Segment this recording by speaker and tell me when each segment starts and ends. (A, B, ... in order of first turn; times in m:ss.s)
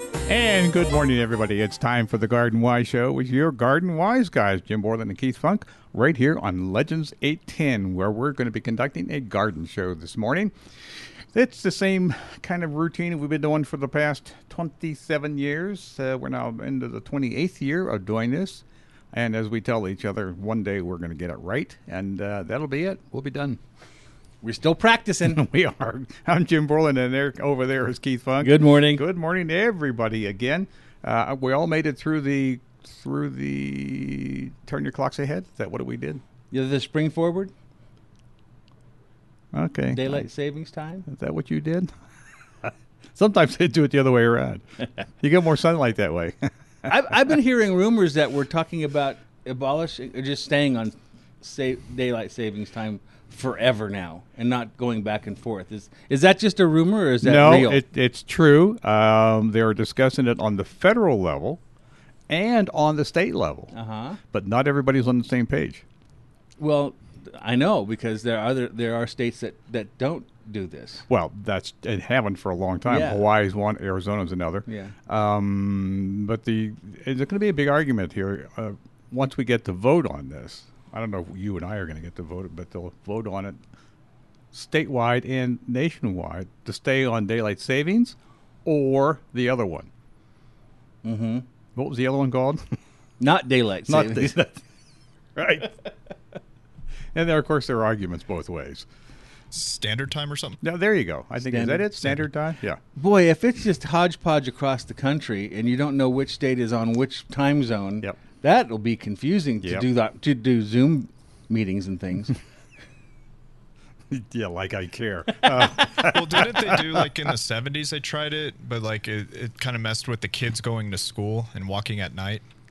0:00.3-0:23.6 A
0:24.4-0:25.4 B
0:25.3-0:36.2 A
0:28.4-0:29.0 B
0:36.5-0:37.5 B
0:39.5-0:40.3 A
0:39.9-0:41.1 B
0:41.1-0:41.9 A
0:43.2-0:44.6 A
0:45.2-0:46.9 A
0:46.8-0:57.8 B
0:57.2-1:01.6 A
1:02.3-1:03.7 A
1:03.7-1:04.2 B
1:04.3-1:05.8 A
1:06.6-1:11.1 B
1:11.1-1:23.6 A
1:12.8-1:13.2 B
1:14.7-1:15.0 B
1:24.5-1:29.9 A
1:31.0-1:31.4 B
1:31.8-1:32.6 A
1:33.2-1:34.4 B
1:33.9-1:34.6 A
1:35.4-1:35.7 A
1:37.1-1:38.9 A
1:39.5-1:40.6 C
1:40.6-1:42.8 A
1:41.5-1:42.2 B
1:42.9-1:52.4 B
1:54.1-1:57.1 A
1:56.0-2:02.4 C